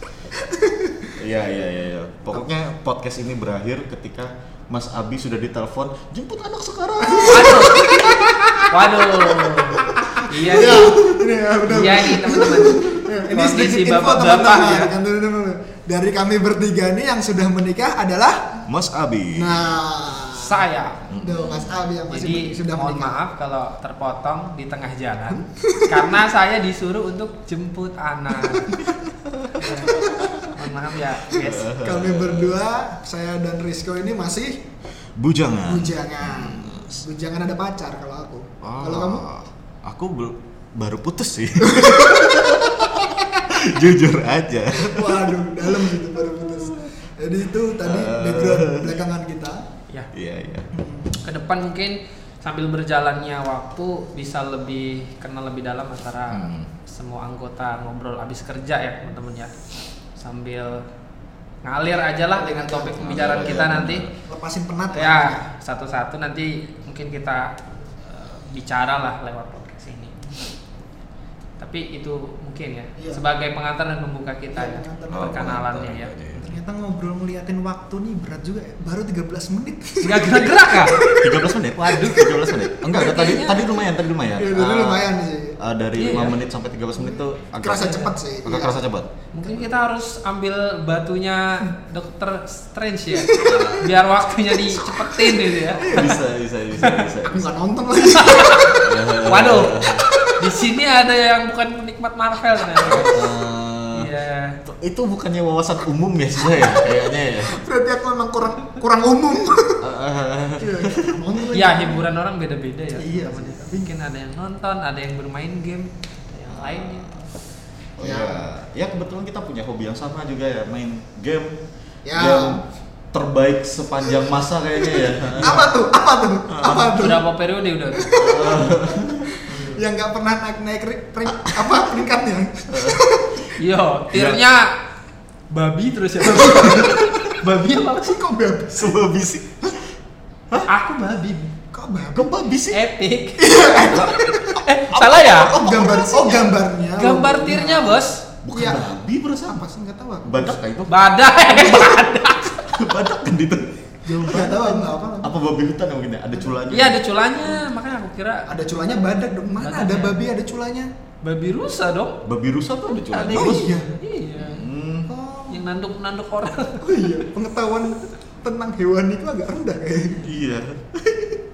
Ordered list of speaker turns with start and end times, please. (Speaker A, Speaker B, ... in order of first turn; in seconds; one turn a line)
Speaker A: 0.3-1.1
Speaker B: 1.2-8.2
Speaker A: 7.0-18.6
Speaker C: 7.2-8.0
Speaker C: 8.7-11.0
Speaker C: 11.7-14.9
Speaker B: 18.7-19.7
Speaker A: 19.3-20.6
Speaker C: 20.4-21.0
Speaker B: 21.1-21.8
Speaker A: 21.2-23.2
Speaker C: 22.1-28.8
Speaker A: 25.6-26.2
Speaker A: 28.4-28.8
Speaker B: 28.9-30.5
Speaker C: 29.6-31.7
Speaker A: 31.3-34.6
Speaker B: 31.4-32.6
Speaker B: 35.2-37.0
Speaker A: 35.6-39.2
Speaker B: 38.6-46.9
Speaker A: 41.6-42.6
Speaker A: 44.8-49.6
Speaker B: 47.8-49.0
Speaker B: 50.1-50.7
Speaker A: 50.7-51.1
Speaker C: 51.2-59.6
Speaker B: 56.3-56.7
Speaker C: 60.1-60.8
Speaker C: 61.6-64.0
Speaker A: 62.4-63.6
Speaker B: 63.0-64.1
Speaker A: 64.2-65.4
Speaker C: 64.9-70.3
Speaker C: 71.6-76.4
Speaker A: 73.0-73.2
Speaker A: 74.5-75.5
Speaker B: 75.1-76.5
Speaker A: 76.4-81.3
Speaker C: 80.0-81.0
Speaker B: 81.1-89.1
Speaker C: 81.8-83.7
Speaker A: 84.4-85.6
Speaker C: 86.0-86.4
Speaker A: 86.9-88.8
Speaker C: 87.8-88.1
Speaker C: 89.3-96.1
Speaker A: 89.4-89.8
Speaker A: 93.1-93.8
Speaker B: 93.4-93.9
Speaker B: 95.7-97.5
Speaker A: 95.8-96.2
Speaker C: 96.8-97.1
Speaker A: 97.2-98.7
Speaker C: 98.1-103.2
Speaker B: 98.2-100.0
Speaker B: 102.8-104.1
Speaker C: 103.9-104.5
Speaker B: 104.7-107.6
Speaker A: 106.4-106.9
Speaker A: 107.4-109.8
Speaker B: 109.8-111.2
Speaker A: 110.6-112.1
Speaker C: 111.5-117.2
Speaker A: 112.9-113.9
Speaker B: 116.5-117.1
Speaker B: 118.0-121.6
Speaker A: 118.0-118.5
Speaker A: 122.0-122.6
Speaker B: 122.1-122.6
Speaker B: 123.1-125.6
Speaker A: 124.8-127.2
Speaker B: 126.5-126.9
Speaker C: 127.0-128.2
Speaker A: 127.9-133.5
Speaker B: 128.1-129.4
Speaker C: 129.5-129.8
Speaker B: 131.4-131.8
Speaker B: 132.7-133.0
Speaker C: 133.6-134.7
Speaker B: 134.1-134.4
Speaker C: 135.5-138.2
Speaker A: 136.2-137.0
Speaker A: 137.9-139.0
Speaker B: 138.8-139.8
Speaker C: 140.7-141.5
Speaker A: 141.7-142.3
Speaker B: 142.1-142.8
Speaker C: 142.7-143.8
Speaker A: 143.4-144.6
Speaker B: 143.8-146.5
Speaker C: 144.6-146.1
Speaker A: 145.5-148.9
Speaker C: 147.0-148.2
Speaker B: 148.4-149.6
Speaker A: 149.4-150.6
Speaker B: 150.2-151.9
Speaker C: 150.9-152.8
Speaker B: 152.7-157.6
Speaker A: 154.1-155.3
Speaker A: 156.3-156.6
Speaker C: 156.7-158.5
Speaker A: 158.5-160.9
Speaker C: 159.6-160.2
Speaker C: 161.2-162.2
Speaker B: 162.2-163.7
Speaker C: 162.8-164.7
Speaker A: 163.2-163.9
Speaker B: 164.4-165.1
Speaker A: 165.1-165.7
Speaker C: 165.5-167.0
Speaker A: 166.8-170.3
Speaker B: 170.2-170.9